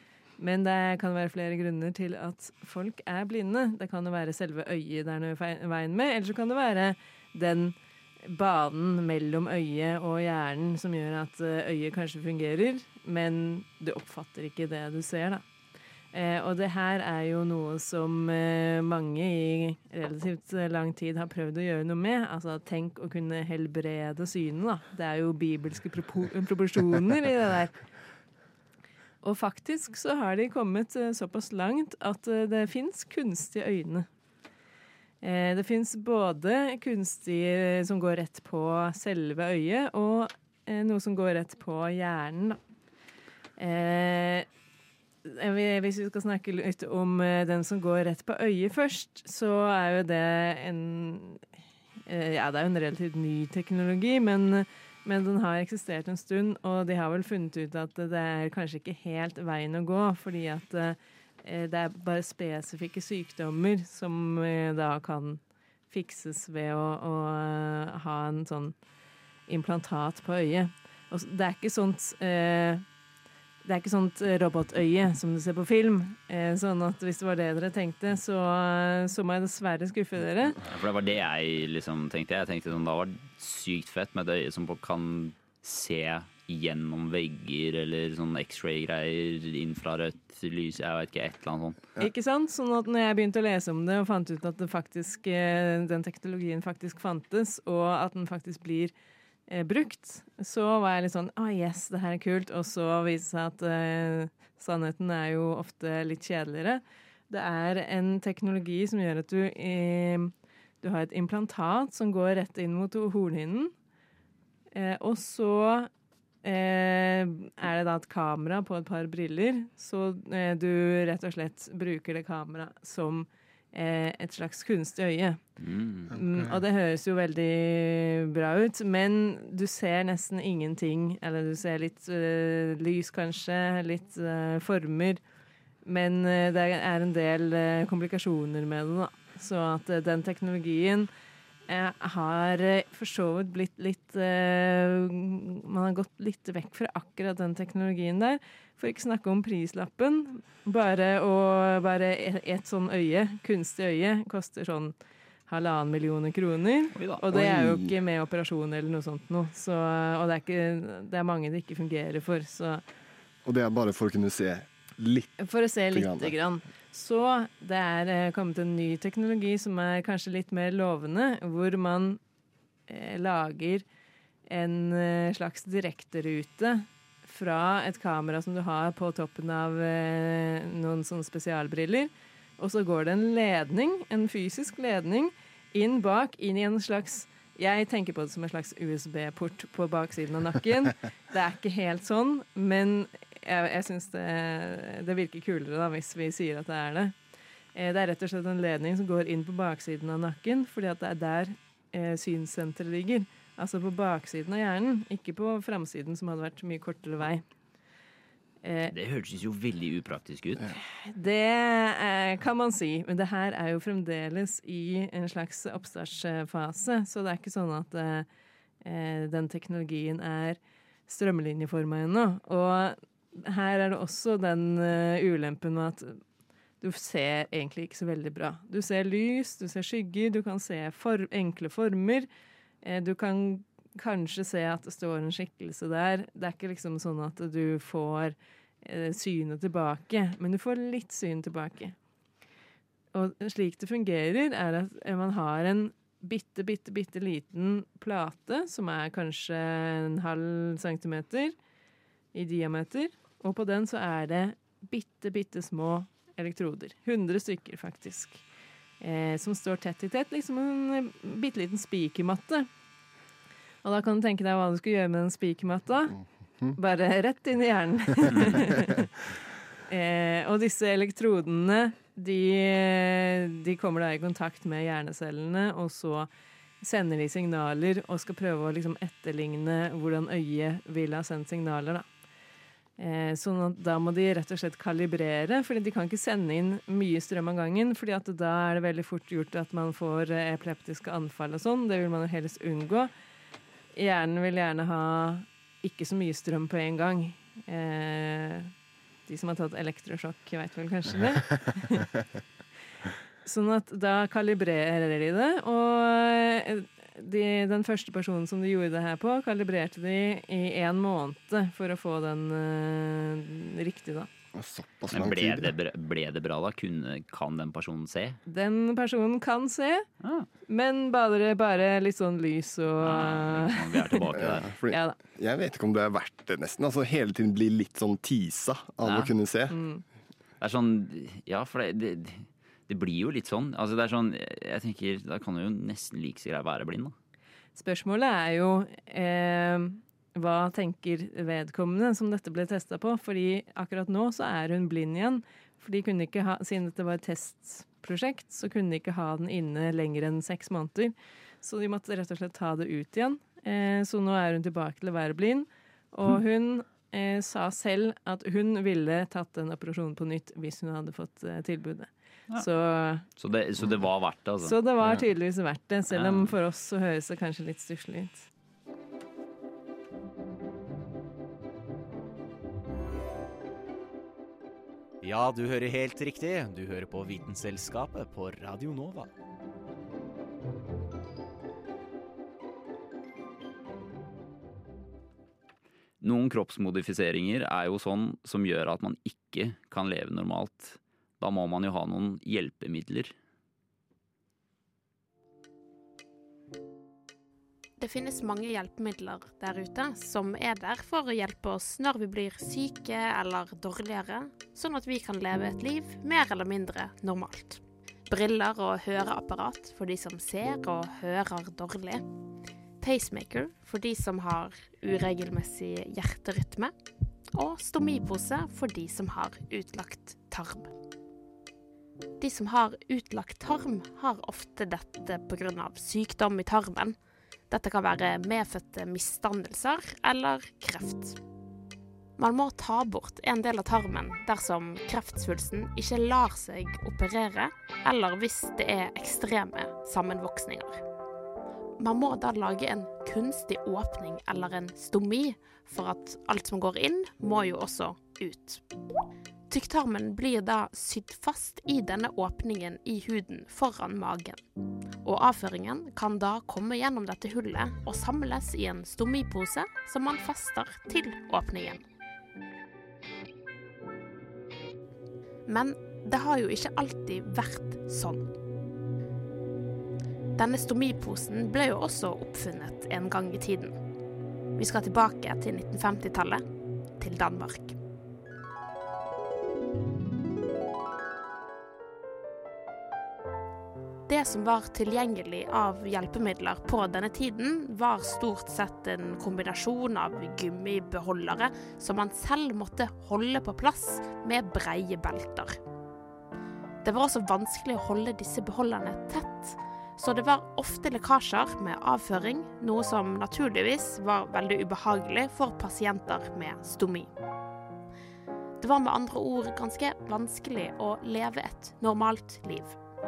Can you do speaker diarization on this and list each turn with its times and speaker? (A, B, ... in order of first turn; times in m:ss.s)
0:00.4-0:15.4 A
0:16.1-0:27.8 A
0:29.2-0:34.1 A
0:35.2-0:42.6 A
0:43.6-0:44.5 A
0:45.2-0:51.4 A
0:52.0-1:08.8 A
1:09.5-1:12.8 A
1:13.6-1:20.6 A
1:20.7-1:31.9 B
1:32.0-1:38.9 A
1:39.5-1:53.7 A
1:54.7-1:55.9 A
1:56.4-2:05.4 A
2:05.6-2:06.1 B
2:06.1-2:15.2 A
2:15.8-2:21.1 A
2:21.7-2:34.9 A
2:35.5-2:42.8 A
2:36.9-2:37.2 B
2:37.3-2:37.9 C
2:43.4-2:45.3 C
2:45.4-2:52.2 A
2:45.9-2:46.3 C
2:52.9-2:53.8 A
2:54.5-3:17.1 A
3:17.7-3:27.4 A
3:28.6-3:28.9 A
3:28.9-3:30.7 B
3:31.0-3:38.3 A
3:38.8-3:46.2 A
3:46.8-3:52.3 A
3:52.8-4:01.9 A
4:03.1-4:11.6 A
4:12.3-4:18.4 A
4:19.0-4:22.7 A
4:23.8-4:26.2 A
4:26.8-4:29.0 A
4:29.9-4:36.3 A
4:36.8-4:42.1 A
4:43.0-4:53.1 A
4:53.9-4:58.7 A
4:59.3-5:02.1 A
5:03.4-5:14.3 A
5:14.5-5:15.7 C
5:15.1-5:18.4 B
5:18.4-5:20.1 A
5:20.2-5:20.5 B
5:20.7-5:25.2 A
5:23.0-5:24.7 B
5:24.3-5:29.8 C
5:29.0-5:29.3 B
5:29.7-5:30.0 A
5:30.6-5:37.1 B
5:37.8-6:03.2 A
6:03.4-6:05.2 B
6:04.6-6:08.5 A
6:06.1-6:06.5 B
6:15.2-6:19.3 D
6:26.2-6:33.3 B
6:38.0-6:52.2 E
6:53.0-6:56.9 E
6:57.5-7:00.9 E
7:02.4-7:07.2 E
7:07.7-7:11.4 E
7:12.4-7:21.0 E
7:22.0-7:28.8 E
7:29.7-7:34.6 E
7:35.2-7:42.0 E
7:45.7-7:48.5 E
7:50.6-7:54.0 E
7:54.8-7:56.6 E
7:57.2-7:58.0 E
8:04.3-8:15.8 E
8:17.0-8:27.3 E
8:28.8-8:33.0 E